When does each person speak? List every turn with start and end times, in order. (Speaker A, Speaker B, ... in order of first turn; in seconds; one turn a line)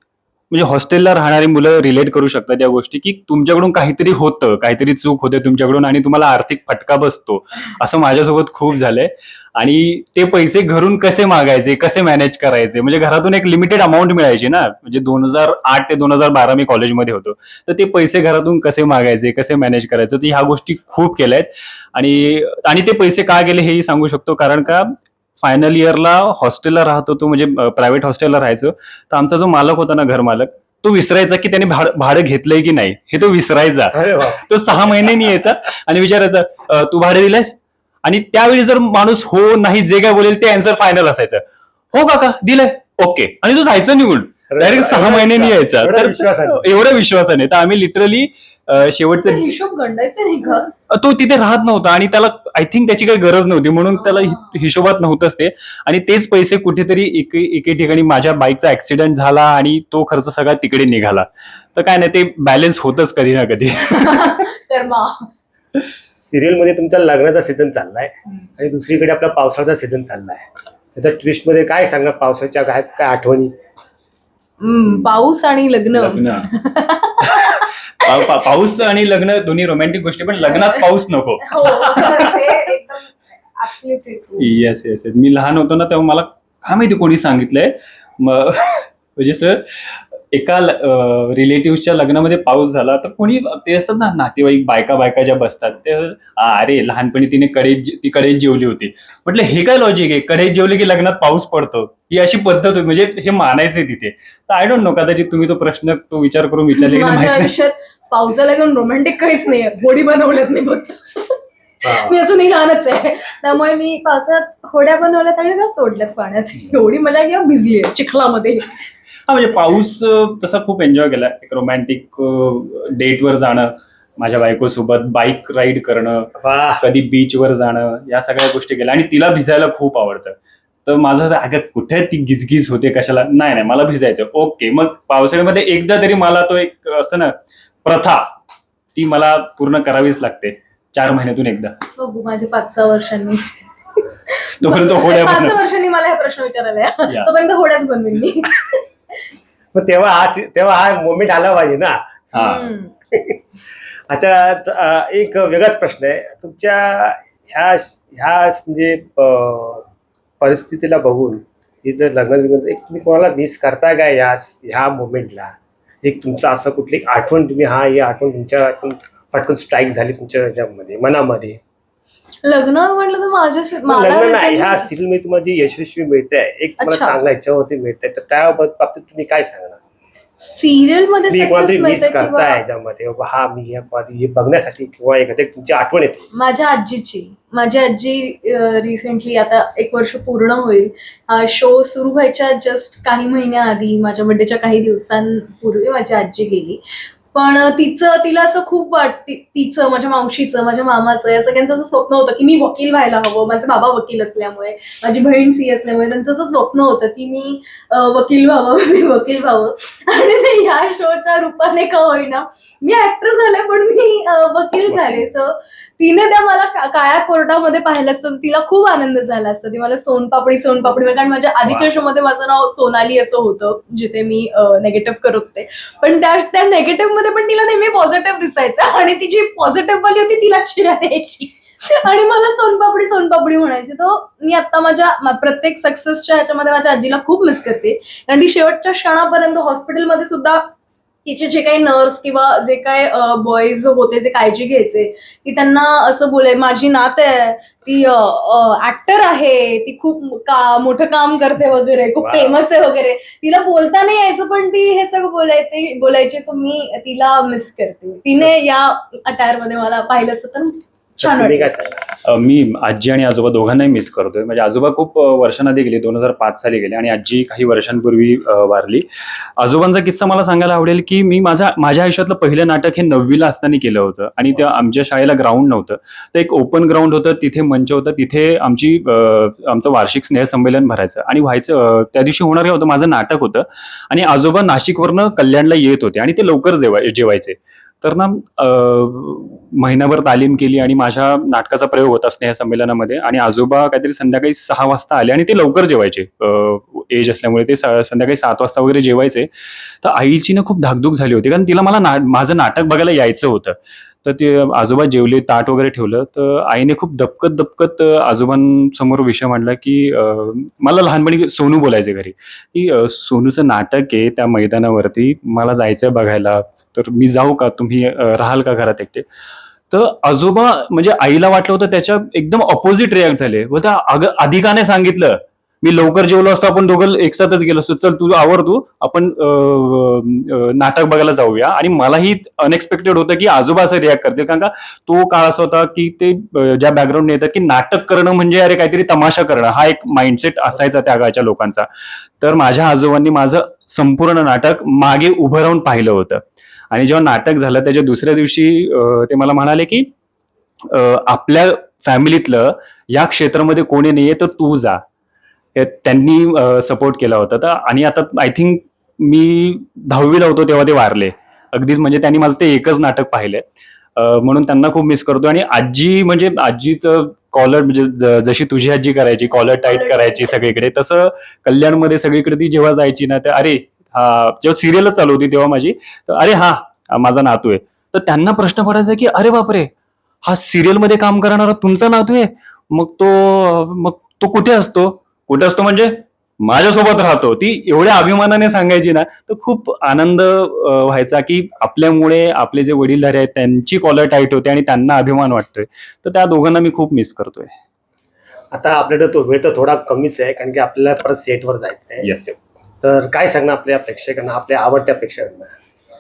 Speaker A: 0.5-41.4
Speaker B: 33.9-34.4
Speaker A: 41.9-49.5
Speaker B: 44.5-46.6
Speaker C: 49.2-50.7
Speaker A: 50.9-64.5
Speaker C: 53.9-54.5
Speaker C: 63.8-65.3
Speaker B: 66.1-73.5
Speaker C: 74.6-78.2
Speaker A: 75.9-76.5
Speaker A: 77.2-82.3
Speaker C: 80.5-80.8
Speaker C: 81.4-84.5
Speaker A: 84.4-107.5
Speaker C: 106.8-118.8
Speaker B: 111.8-112.2
Speaker A: 119.3-130.3
Speaker B: 126.4-126.8
Speaker A: 130.9-138.3
Speaker A: 138.9-141.8
Speaker C: 142.0-143.5
Speaker C: 144.3-148.8
Speaker A: 144.6-145.6
Speaker B: 149.7-152.2
Speaker A: 152.3-152.7
Speaker C: 152.3-152.9
Speaker B: 153.1-153.4
Speaker B: 154.1-159.9
Speaker B: 160.4-171.6
Speaker C: 172.4-174.9
Speaker B: 173.9-179.8
Speaker C: 176.8-177.2
Speaker C: 180.4-182.6
Speaker B: 181.3-186.3
Speaker C: 186.3-196.8
Speaker C: 197.3-240.7
Speaker C: 241.2-261.8
Speaker B: 252.2-252.6
Speaker B: 261.2-262.1
Speaker A: 262.2-269.1
Speaker A: 269.6-299.5
Speaker A: 300.0-319.2
Speaker A: 319.9-341.9
Speaker A: 342.4-350.1
Speaker A: 350.9-355.0
Speaker A: 355.8-363.6
Speaker A: 364.2-379.9
Speaker C: 369.8-370.6
Speaker A: 380.4-397.7
Speaker B: 398.7-405.7
Speaker A: 402.2-402.5